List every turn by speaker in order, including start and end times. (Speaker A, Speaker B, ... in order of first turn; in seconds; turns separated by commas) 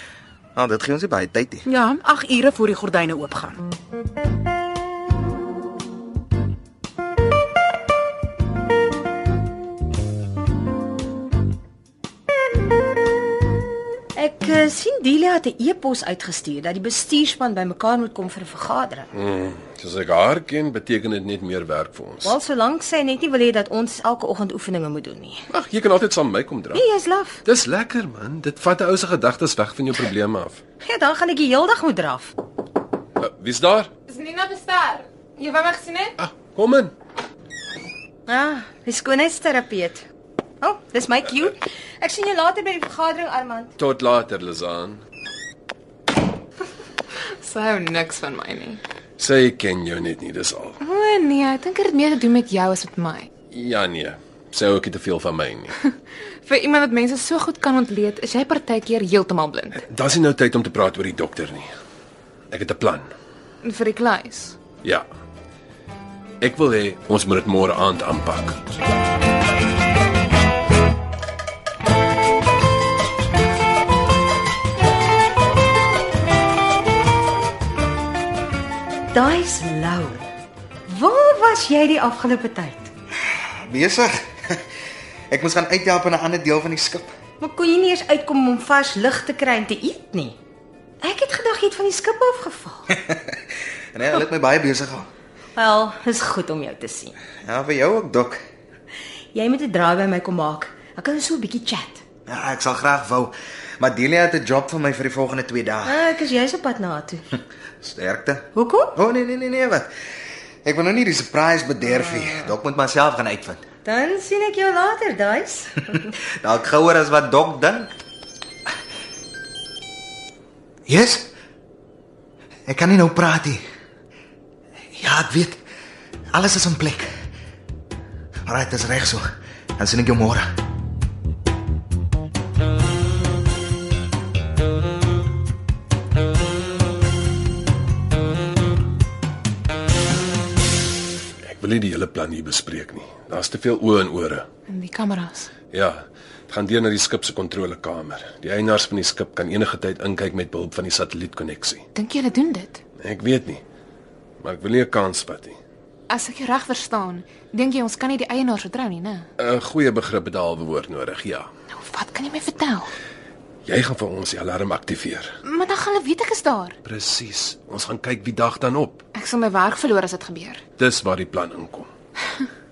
Speaker A: 0.6-1.7, Speaker B: 1.7-3.6, Speaker C: 14.2-19.1, Speaker D: 19.1-22.4, Speaker C: 22.2-25.4, Speaker D: 25.5-26.9, Speaker C: 26.7-27.4, Speaker D: 27.4-30.6, Speaker C: 30.8-32.3, Speaker D: 33.2-33.9, Speaker E: 34.1-36.1, Speaker D: 36.2-36.9, Speaker C: 38.3-40.0, Speaker C: 40.6-43.7, Speaker D: 43.8-45.0, Speaker E: 47.4-48.8, Speaker D: 49.2-50.8, Speaker E: 50.8-53.3, Speaker D: 53.5-55.8, Speaker E: 56.5-59.8, Speaker D: 59.8-61.7, Speaker D: 62.5-63.1, Speaker E: 63.6-64.6, Speaker D: 66.4-68.8, Speaker C: 79.1-80.3, Speaker C: 80.9-82.9, Speaker A: 83.6-84.6, Speaker A: 85.3-87.1, Speaker C: 87.4-90.4, Speaker C: 91.0-92.9, Speaker A: 92.9-93.4, Speaker A: 93.9-95.1, Speaker C: 95.6-97.2, Speaker A: 97.5-98.4, Speaker C: 99.3-102.0, Speaker A: 102.3-106.1, Speaker C: 105.8-107.2, Speaker A: 107.8-109.9, Speaker C: 108.5-108.9, Speaker A: 110.7-113.6, Speaker C: 111.9-112.5, Speaker C: 113.8-116.0, Speaker A: 116.4-117.9, Speaker A: 120.9-121.3, Speaker A: 122.7-123.6, Speaker A: 125.0-125.6, Speaker A: 126.3-127.1, Speaker A: 128.5-129.2, Speaker A: 129.8-130.5, Speaker D: 141.4-144.5, Speaker E: 144.7-145.5, Speaker D: 145.7-151.8, Speaker E: 151.9-152.8, Speaker D: 153.0-153.6, Speaker D: 154.4-155.6, Speaker E: 156.1-159.3, Speaker D: 159.4-161.5, Speaker E: 161.7-162.9, Speaker D: 163.7-165.3, Speaker E: 165.4-166.8, Speaker D: 166.8-169.0, Speaker E: 169.2-170.6, Speaker D: 170.8-171.9